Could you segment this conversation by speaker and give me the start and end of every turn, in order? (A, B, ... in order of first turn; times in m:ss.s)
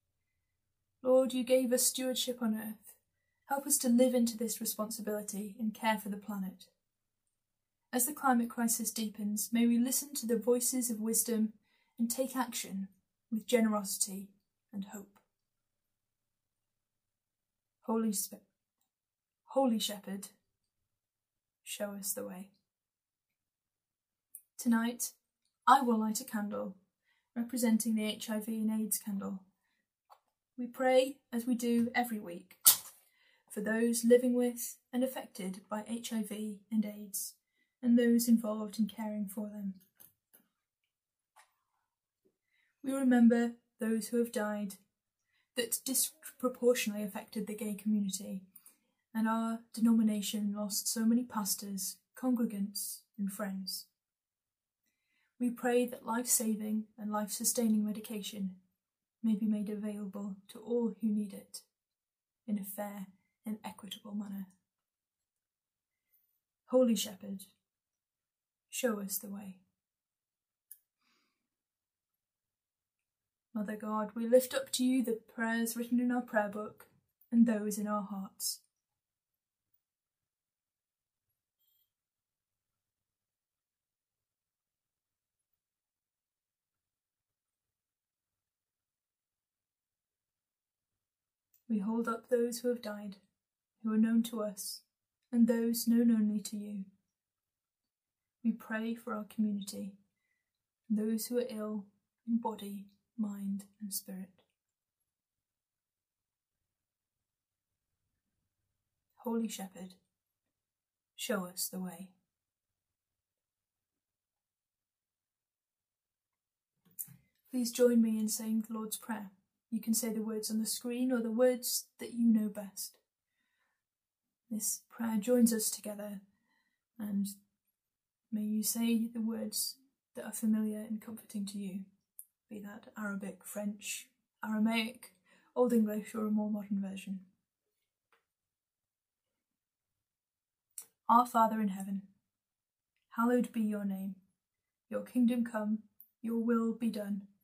0:01.0-0:02.9 A
0:03.5-0:06.7 A
0:07.9-0:15.2 A
0:17.8-0:18.4 A
0:19.5-0:20.3 A
0:21.6-0:22.5 A
0:24.6-0:25.1 A
0:25.6-0:26.8 A
0:27.3-0:29.4 A
0:30.6-0:32.6 A
0:33.5-0:39.8 A
0:42.8-0:44.8 A
0:45.5-0:48.4 A
0:49.1-0:53.8 A
0:55.4-0:58.6 A
0:59.2-1:01.6 A
1:02.4-1:04.5 A
1:06.7-1:07.5 A
1:08.7-1:09.6 A
1:13.5-1:18.6 A
1:31.7-1:33.2 A
1:33.8-1:36.8 A
1:38.4-1:40.0 A
1:40.9-1:44.4 A
1:49.2-1:50.0 A
1:51.2-1:52.1 A
1:57.5-2:03.0 A
2:04.5-2:06.2 A
2:07.0-2:07.3 A
2:08.3-2:11.8 A
2:12.5-2:17.2 A
2:21.1-2:22.0 A
2:23.1-2:24.2 A
2:24.9-2:27.2 A